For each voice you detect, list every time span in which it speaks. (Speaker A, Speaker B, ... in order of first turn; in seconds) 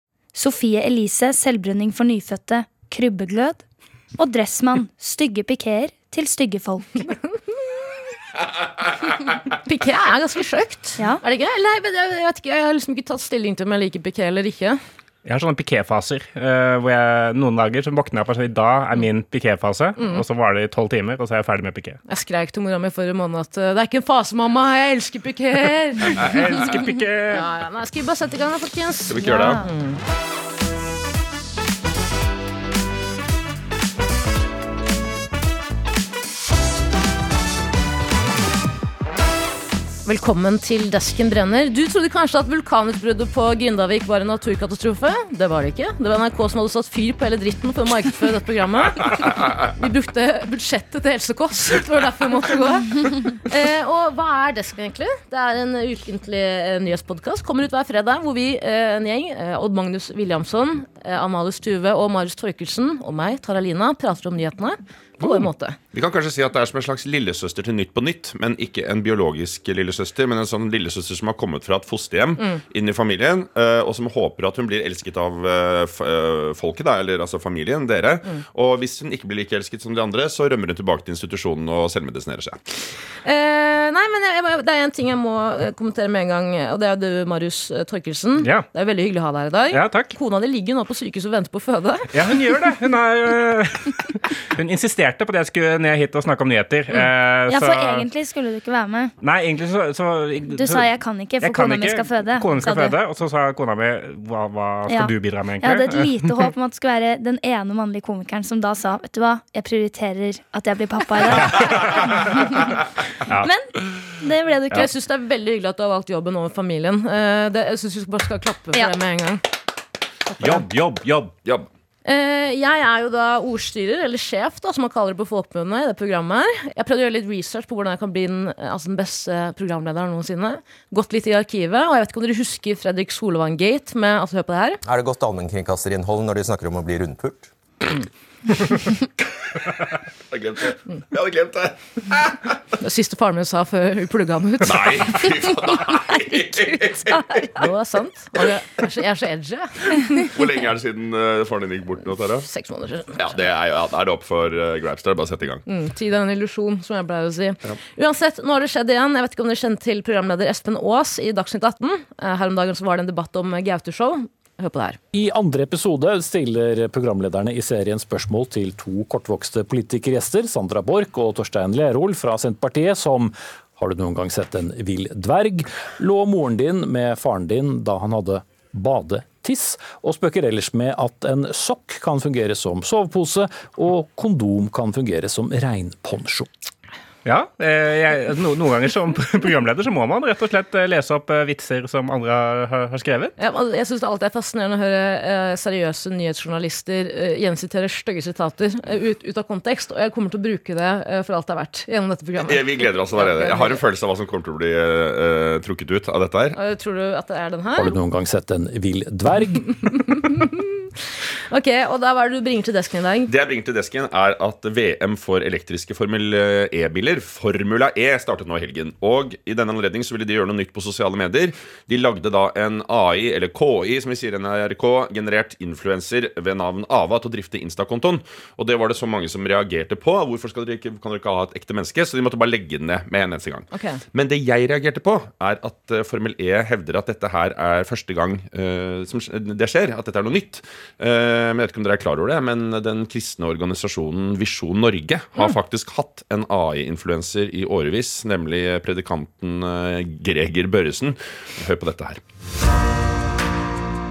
Speaker A: 0.3-3.6, 4.2-7.1, 29.2-29.6, 97.5-99.1, 100.5-103.0, 104.9-112.4, 113.4-114.9
Speaker B: 9.6-14.8, 20.0-20.2, 22.1-26.8, 27.3-30.0, 40.0-65.8, 83.2-92.2, 114.7-119.4, 122.0-134.8, 142.8-145.3, 147.5-150.3, 152.4-153.2, 155.7-165.0, 193.4-203.8, 206.5-208.0, 209.9-210.5, 211.5-213.3, 233.7-234.0
Speaker C: 15.2-22.0, 26.0-27.5, 88.4-88.7, 89.7-90.1, 92.1-98.1, 99.2-100.8, 101.4-106.1, 113.2-113.5, 120.4-121.3, 187.2-193.3
Speaker D: 29.1-29.6, 65.2-82.6, 120.4-120.7, 121.4-121.7, 140.3-142.6, 144.6-147.7, 150.2-152.5, 153.2-155.6, 202.4-206.6, 213.3-252.2
Speaker E: 134.8-137.5
Speaker F: 165.1-186.5, 207.8-209.7